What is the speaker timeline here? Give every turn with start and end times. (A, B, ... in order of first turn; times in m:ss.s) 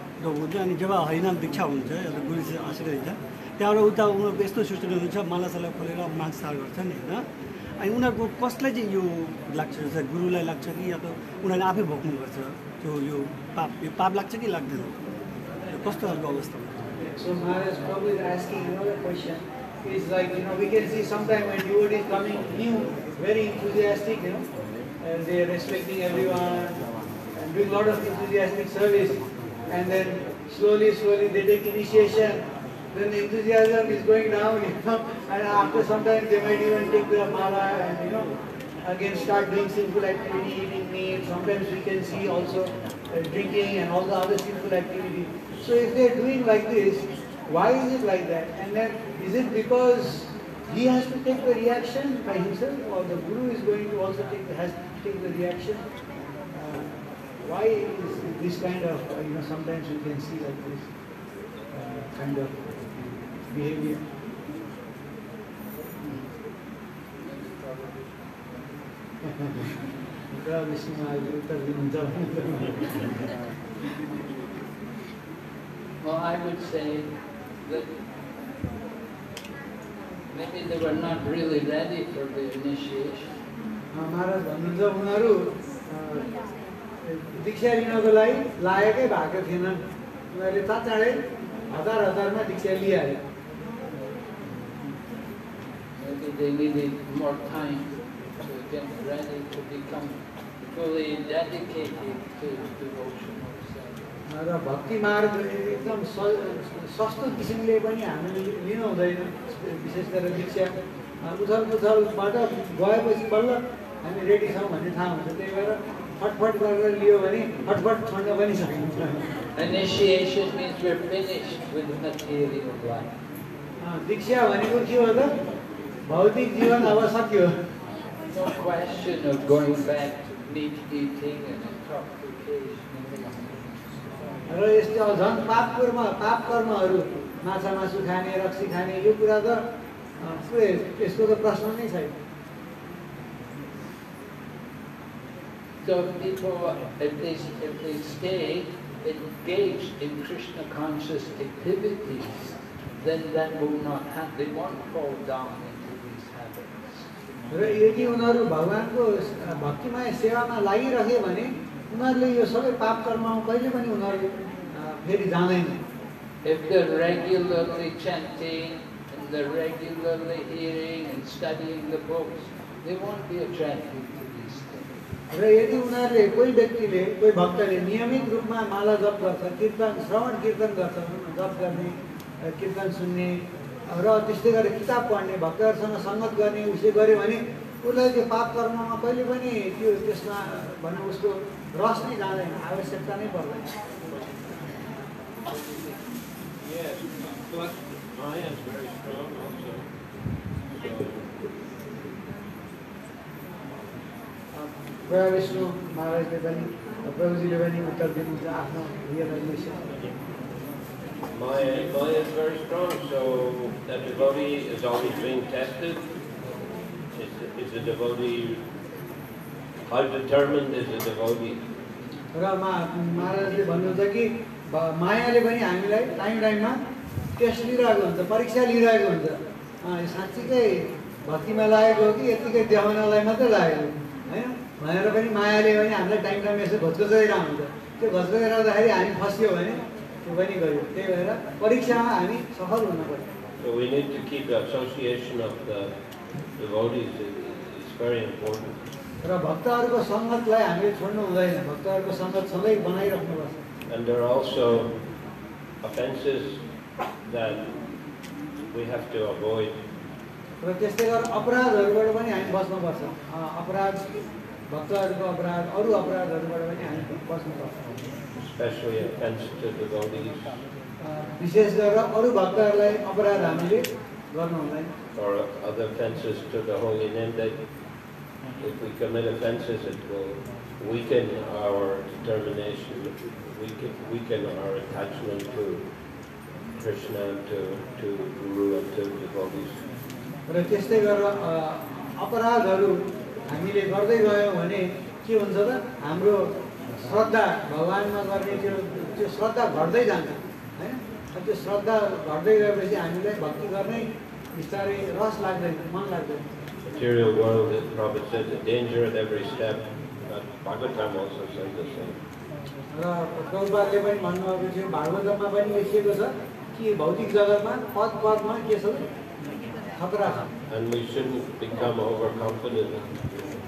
0:00.2-0:07.2 A
0:07.8-0:15.0 A
0:15.8-0:16.9 A
0:17.0-0:24.5 B
0:25.0-0:26.8 B
0:27.4-0:38.3 B
0:38.8-0:55.9 B
0:56.5-1:00.9 B
1:01.7-1:02.9 B
1:03.5-1:04.0 B
1:07.2-1:08.3 C
1:09.2-1:09.7 B
1:10.3-1:13.0 B
1:16.0-1:17.1 C
1:17.6-1:17.9 C
1:20.3-1:23.3 C
1:23.9-1:26.3 B
1:27.0-1:29.8 B
1:30.3-1:31.2 B
1:31.7-1:33.2 B
1:36.0-1:44.2 C
1:44.3-1:59.2 B
1:59.6-2:03.1 C
2:03.8-2:05.3 B
2:06.1-2:07.6 B
2:08.3-2:13.8 C
2:14.5-2:19.6 B
2:20.2-2:22.1 B
2:25.8-2:37.1 C
2:37.5-2:45.8 B
2:46.4-2:55.0 C
2:55.3-3:13.7 B
3:16.6-3:19.8 D
3:20.8-3:21.3 D
3:24.5-3:29.8 B
3:31.3-3:36.0 D
3:37.1-3:38.6 D
3:39.9-3:41.6 D
3:42.3-3:46.8 B
3:47.4-4:03.3 B
4:03.6-4:05.9 D
4:06.6-4:08.8 D
4:09.2-4:13.6 B
4:13.9-4:14.9 D
4:15.8-4:16.6 D
4:17.3-4:17.8 D
4:18.7-4:19.8 D
4:20.6-4:24.0 B
4:24.7-4:28.0 B
4:28.4-4:30.6 D
4:31.0-4:34.9 B
4:35.2-4:37.6 D
4:38.6-4:45.8 D
4:46.8-4:49.8 D
4:50.5-5:06.4 B
5:06.8-5:12.2 D
5:12.9-5:19.0 B
5:20.0-5:20.5 B
5:20.7-5:23.5 D